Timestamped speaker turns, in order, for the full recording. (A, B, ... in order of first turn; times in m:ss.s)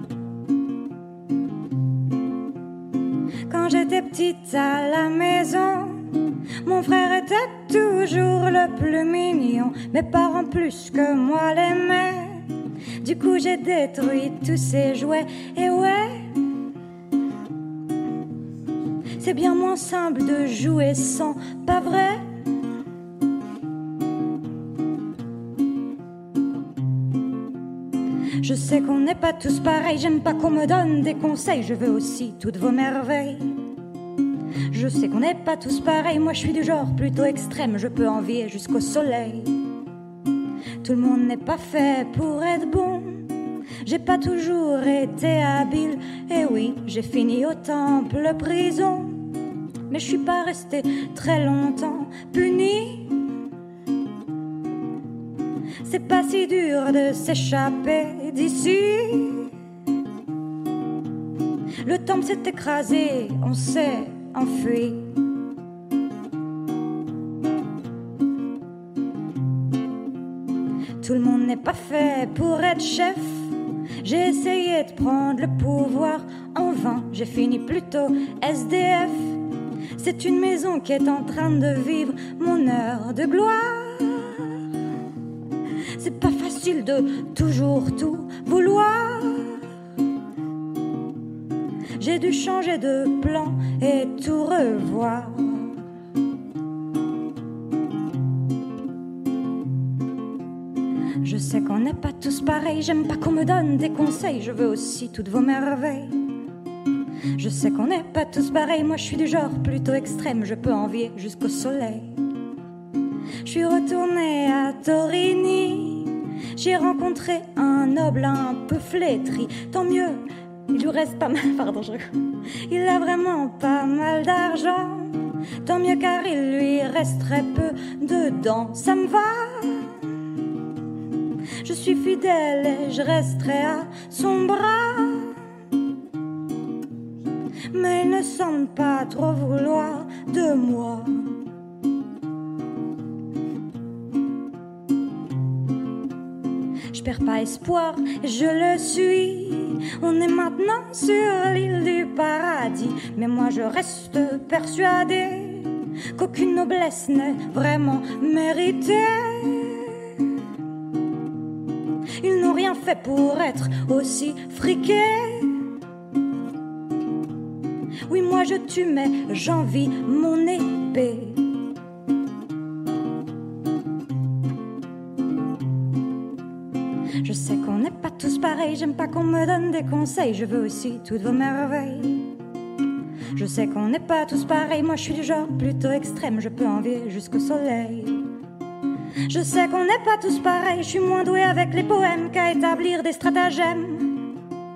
0:03.5-0:12.5 A
0:13.0-0:16.3 A
0:19.2-0:22.2 A
0:28.4-0:33.6 A
0:34.7-0:39.6 A
0:40.8-0:49.3 A
0:49.9-0:53.2 A
0:55.8-0:59.5 A
1:01.8-1:05.2 A
1:11.0-1:19.4 A
1:20.0-1:24.5 A
1:26.0-1:29.6 A
1:32.0-1:35.7 A
1:41.2-1:46.2 A
1:47.4-1:52.1 A
1:53.4-2:02.1 A
2:02.6-2:10.0 A
2:11.6-2:15.4 A
2:17.7-2:21.2 A
2:26.9-2:40.0 A
2:42.2-2:45.7 A
2:48.1-2:51.5 A
2:57.2-3:02.3 A
3:03.4-3:08.3 A
3:09.3-3:14.3 A